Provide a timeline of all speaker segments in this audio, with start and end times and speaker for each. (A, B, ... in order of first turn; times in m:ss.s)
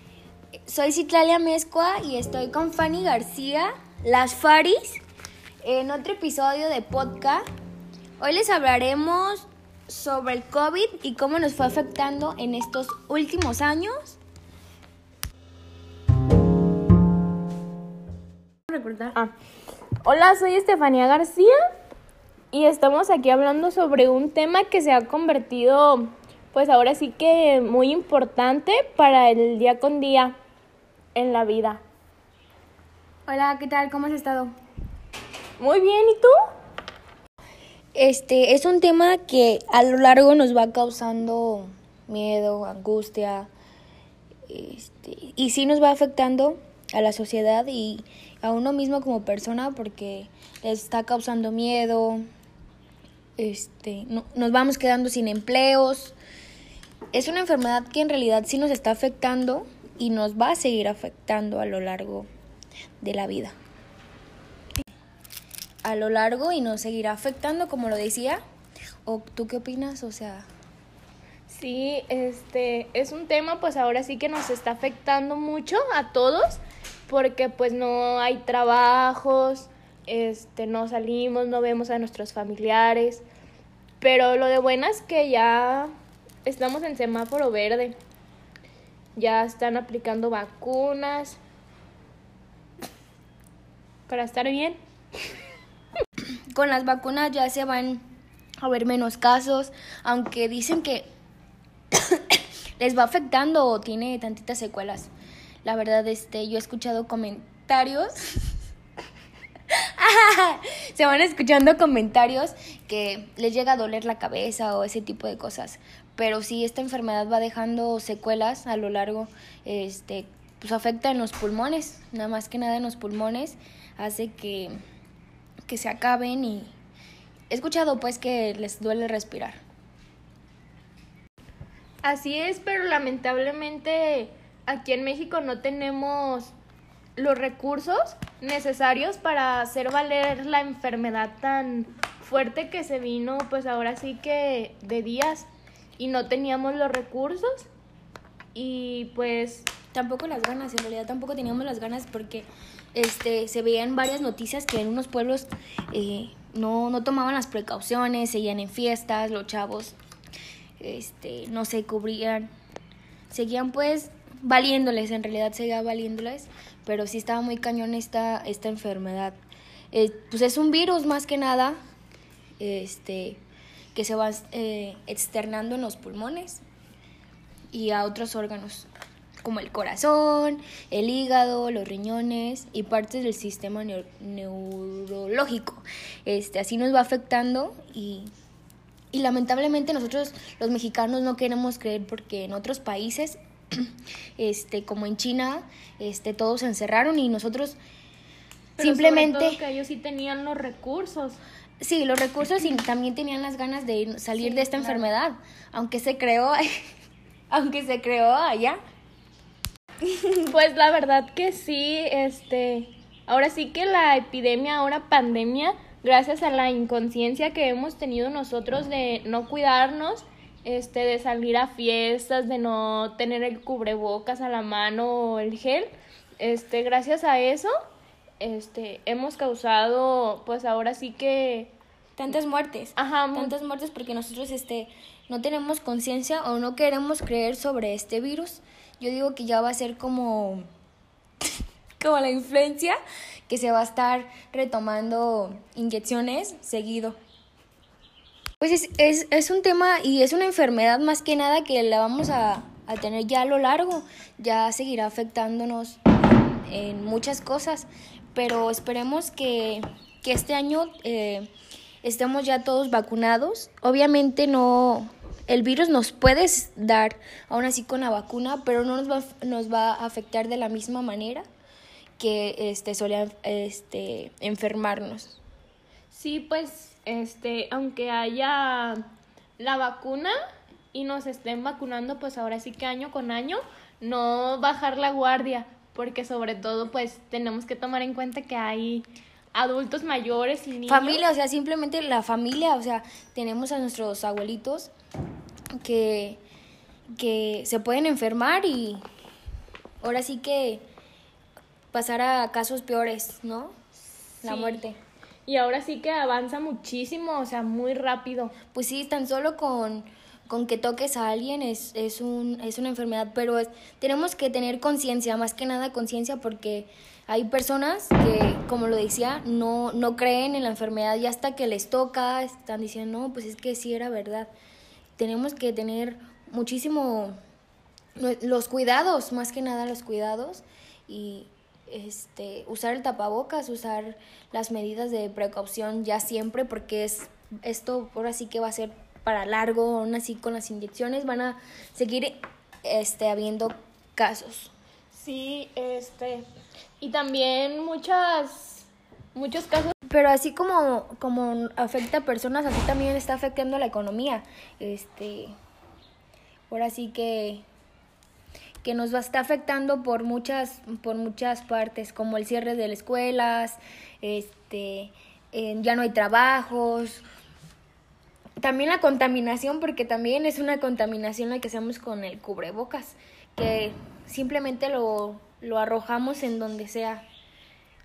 0:00.7-0:05.0 A
0:05.6-0:07.4 A
0:08.2-0:14.2 A
0:18.7-0:19.2 A
0:20.0-0:21.5 B
0:22.5-0:30.3 B
0:31.1-0:31.8 B
0:33.3-0:34.5 A
0:35.6-0:36.3 B
0:37.9-0:43.5 A
0:44.5-0:52.2 A
0:53.4-0:56.1 A
0:57.1-1:02.3 A
1:03.0-1:03.6 A
1:05.8-1:08.4 A
1:09.0-1:10.5 A
1:11.5-1:23.2 B
1:24.0-1:25.9 B
1:26.4-1:28.0 B
1:29.2-1:31.4 B
1:34.1-1:34.8 B
1:36.5-1:38.0 A
1:38.6-1:41.1 A
1:41.9-1:45.1 A
1:45.6-1:48.4 A
1:49.7-2:04.7 A
2:05.7-2:06.7 A
2:07.5-2:09.6 A
2:12.0-2:16.5 B
2:17.2-2:27.7 B
2:28.5-2:29.7 B
2:29.9-2:40.0 A
2:40.8-2:42.5 A
2:43.3-2:49.4 A
2:49.9-2:51.8 A
2:52.6-2:53.4 A
2:53.9-2:56.6 A
2:57.7-2:58.9 A
2:59.4-3:08.3 A
3:09.1-3:17.8 A
3:18.8-3:21.4 B
3:18.8-3:19.6 A
3:21.8-3:26.7 A
3:24.4-3:25.0 B
3:27.5-3:28.8 A
3:30.4-3:47.7 B
3:48.4-3:51.7 B
3:52.2-4:00.6 A
3:53.0-3:53.5 B
4:02.0-4:07.2 A
4:08.6-4:21.5 A
4:22.0-4:31.4 A
4:32.2-4:35.4 A
4:36.1-4:39.0 B
4:39.6-4:40.3 B
4:40.9-4:51.2 B
4:50.9-4:54.9 A
4:55.8-4:56.4 A
4:57.2-4:59.0 A
5:00.0-5:00.8 A
5:01.9-5:03.7 A
5:04.4-5:04.8 B
5:04.4-5:05.0 A
5:05.4-5:08.5 B
5:08.7-5:24.5 A
5:25.2-5:27.4 A
5:28.2-5:44.7 A
5:45.1-5:46.4 B
5:47.0-5:49.9 B
5:50.1-5:55.5 A
5:56.7-5:57.6 A
5:58.8-6:07.2 A
6:08.6-6:17.2 A